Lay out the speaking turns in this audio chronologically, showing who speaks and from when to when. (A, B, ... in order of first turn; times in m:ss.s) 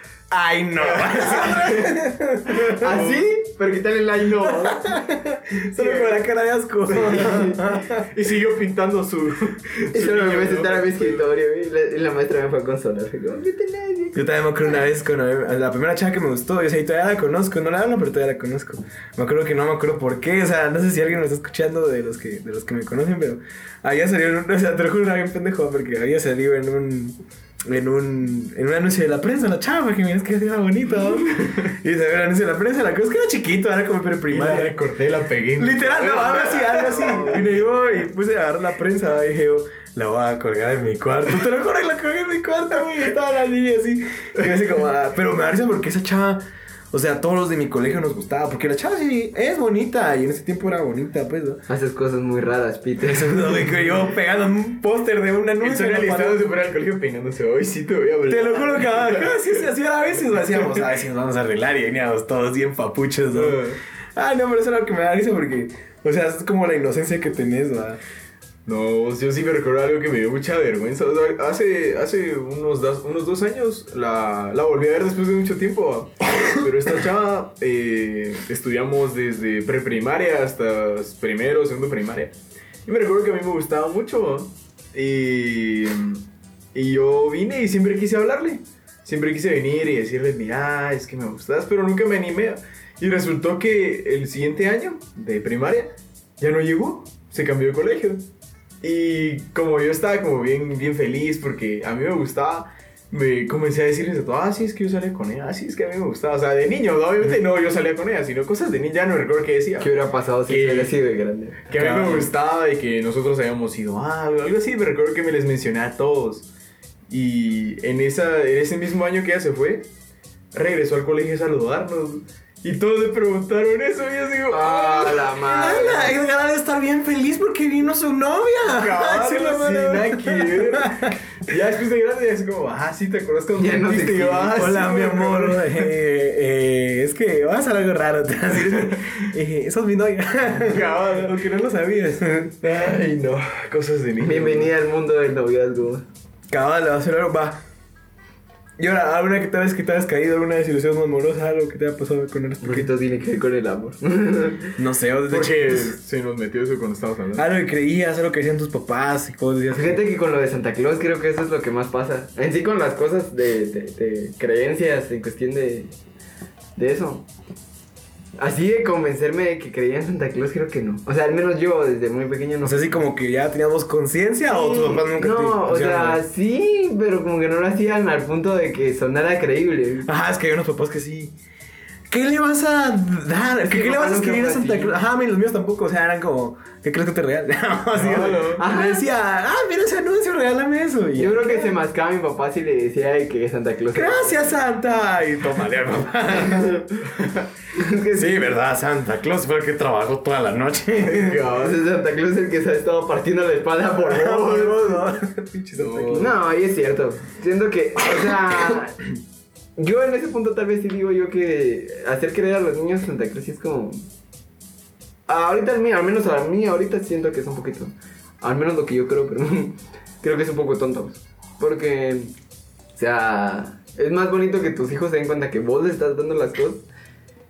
0:00.3-0:03.0 A
0:00.8-0:01.9 B
0:02.6-0:04.8 C
0:02.8-0:03.3 B
0:04.6-0:08.1 A
0:05.8-0:06.2 B
0:06.9-0:11.2 B
0:07.2-0:07.6 C
0:09.9-0:14.8 C
0:14.1-0:34.8 A
0:31.4-0:31.7 B
0:34.3-0:37.6 B
0:35.6-0:51.6 A
0:37.0-0:37.4 C
0:51.7-0:53.7 C
0:53.0-0:56.4 A
0:55.6-0:59.7 B
0:58.3-1:03.6 A
1:00.3-1:00.9 B
1:03.3-1:03.8 B
1:04.2-1:08.0 A
1:08.6-1:22.3 B
1:22.8-1:26.2 B
1:26.7-1:38.2 B
1:38.8-1:49.9 B
1:49.8-1:51.6 C
1:50.4-1:50.9 B
1:51.7-1:56.5 B
1:51.7-1:52.3 A
1:57.1-1:59.9 B
2:00.5-2:05.7 B
2:04.5-2:06.2 C
2:05.4-2:11.2 A
2:08.6-2:15.9 B
2:13.6-2:14.6 C
2:14.5-2:22.6 A
2:20.6-2:21.4 B
2:22.6-2:24.7 B
2:24.2-2:26.0 C
2:26.5-2:27.6 A
2:28.8-2:32.9 A
2:32.6-2:34.8 C
2:34.8-2:35.9 A
2:35.3-2:37.4 B
2:37.3-2:40.0 A
2:39.7-2:45.9 C
2:46.8-2:47.3 C
2:48.4-2:52.9 C
2:52.6-2:56.2 A
2:54.5-3:00.1 C
3:00.0-3:01.3 A
3:02.1-3:11.8 A
3:03.6-3:05.0 C
3:07.9-3:08.6 B
3:08.2-3:09.0 C
3:11.2-3:14.4 C
3:13.9-3:16.9 A
3:16.5-3:16.8 C
3:17.7-3:18.5 C
3:18.1-3:21.4 A
3:21.0-3:21.8 B
3:21.6-3:25.0 C
3:23.9-3:26.3 A
3:25.8-3:26.3 B
3:26.1-3:29.0 C
3:28.2-3:28.8 A
3:29.8-3:34.0 C
3:35.3-3:42.3 C
3:43.0-3:46.8 C